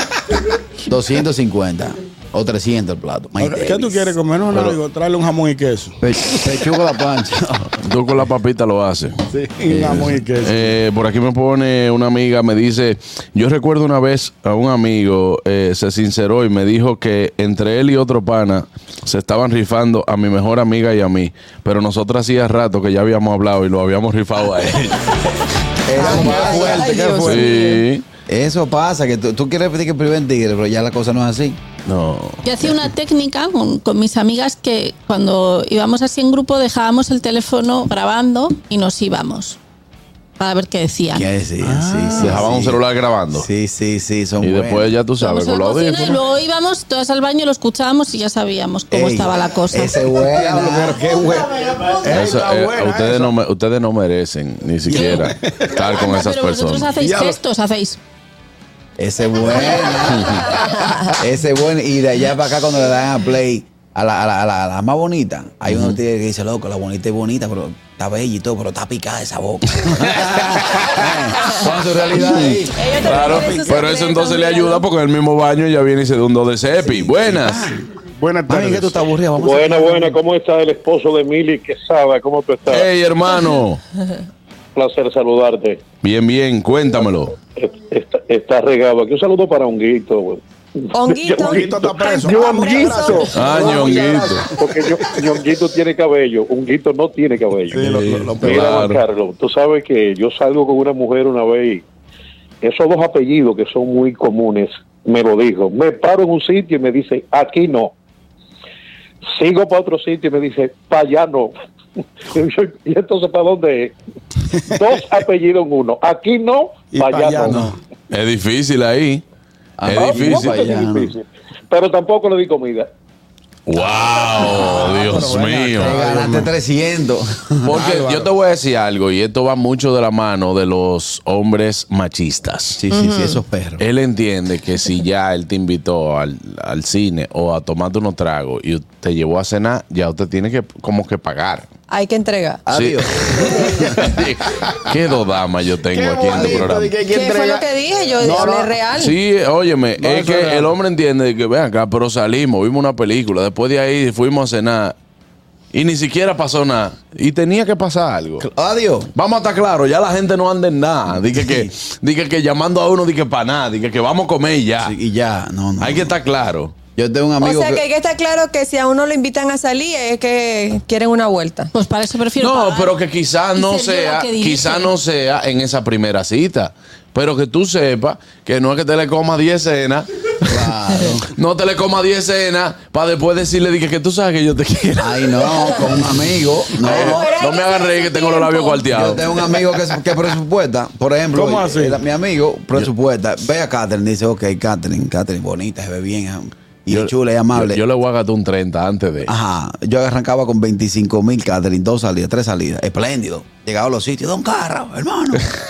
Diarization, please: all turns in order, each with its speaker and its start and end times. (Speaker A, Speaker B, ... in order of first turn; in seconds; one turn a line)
Speaker A: 0.9-4.1
Speaker B: 3.4-6.0
Speaker A: 6.0-7.7
Speaker C: 7.7-9.2
Speaker B: 9.3-10.7
Speaker A: 9.7-10.1
Speaker C: 10.4-25.2
Speaker A: 25.9-27.1
Speaker B: 25.9-27.5
Speaker D: 25.9-27.8
Speaker C: 27.2-28.0
Speaker A: 28.3-31.6
Speaker C: 31.9-32.4
Speaker E: 32.4-39.6
Speaker E: 40.4-41.3
Speaker A: 41.1-44.9
Speaker B: 41.7-42.2
Speaker C: 42.1-43.5
Speaker C: 44.4-46.2
Speaker E: 45.2-50.0
Speaker A: 48.9-51.6
Speaker B: 50.2-53.3
Speaker C: 52.0-56.9
Speaker B: 54.9-55.8
Speaker E: 54.9-58.0
Speaker B: 57.0-57.4
Speaker A: 59.0-60.6
Speaker D: 59.8-61.1
Speaker C: 60.1-60.4
Speaker A: 61.1-72.8
Speaker C: 65.7-66.0
Speaker D: 71.3-74.8
Speaker C: 72.2-77.7
Speaker B: 73.2-73.8
Speaker A: 76.8-77.9
Speaker B: 78.2-79.0
Speaker A: 78.5-80.2
Speaker F: 79.4-82.9
Speaker C: 82.7-83.8
Speaker F: 84.7-85.8
Speaker C: 86.0-87.3
Speaker F: 87.5-90.4
Speaker D: 90.9-94.0
Speaker F: 91.0-101.8
Speaker B: 91.4-95.1
Speaker C: 93.3-94.5
Speaker B: 97.7-98.8
Speaker C: 97.7-99.0
Speaker F: 102.6-107.9
Speaker F: 109.3-111.5
Speaker F: 112.3-113.9
Speaker F: 114.7-117.7
Speaker B: 116.9-117.8
Speaker C: 118.1-119.2
Speaker A: 119.8-121.1
Speaker C: 119.8-120.5
Speaker F: 119.9-122.9
Speaker C: 123.7-126.0
Speaker B: 124.1-126.5
Speaker A: 125.8-127.8
Speaker C: 127.6-132.8
Speaker B: 127.7-128.3
Speaker A: 132.8-133.8
Speaker D: 132.9-133.4
Speaker C: 133.8-141.7
Speaker D: 141.9-142.6
Speaker A: 142.7-144.2
Speaker C: 142.7-146.9
Speaker B: 145.9-147.7
Speaker A: 146.3-146.7
Speaker D: 147.1-149.1
Speaker B: 148.2-148.8
Speaker C: 148.9-154.9
Speaker B: 150.0-150.7
Speaker C: 155.7-158.4
Speaker A: 158.4-159.1
Speaker C: 159.1-165.0
Speaker A: 161.3-161.7
Speaker A: 164.8-166.2
Speaker C: 165.8-166.7
Speaker A: 166.9-167.8
Speaker D: 167.4-171.7
Speaker E: 171.7-173.0
Speaker C: 172.4-180.7
Speaker E: 173.6-174.9
Speaker A: 180.4-181.3
Speaker C: 181.3-185.9
Speaker A: 185.0-187.3
Speaker C: 186.8-189.2
Speaker D: 186.9-188.8
Speaker E: 187.4-188.8
Speaker A: 188.9-197.8
Speaker B: 191.3-192.0
Speaker C: 196.9-199.3
Speaker A: 199.2-205.4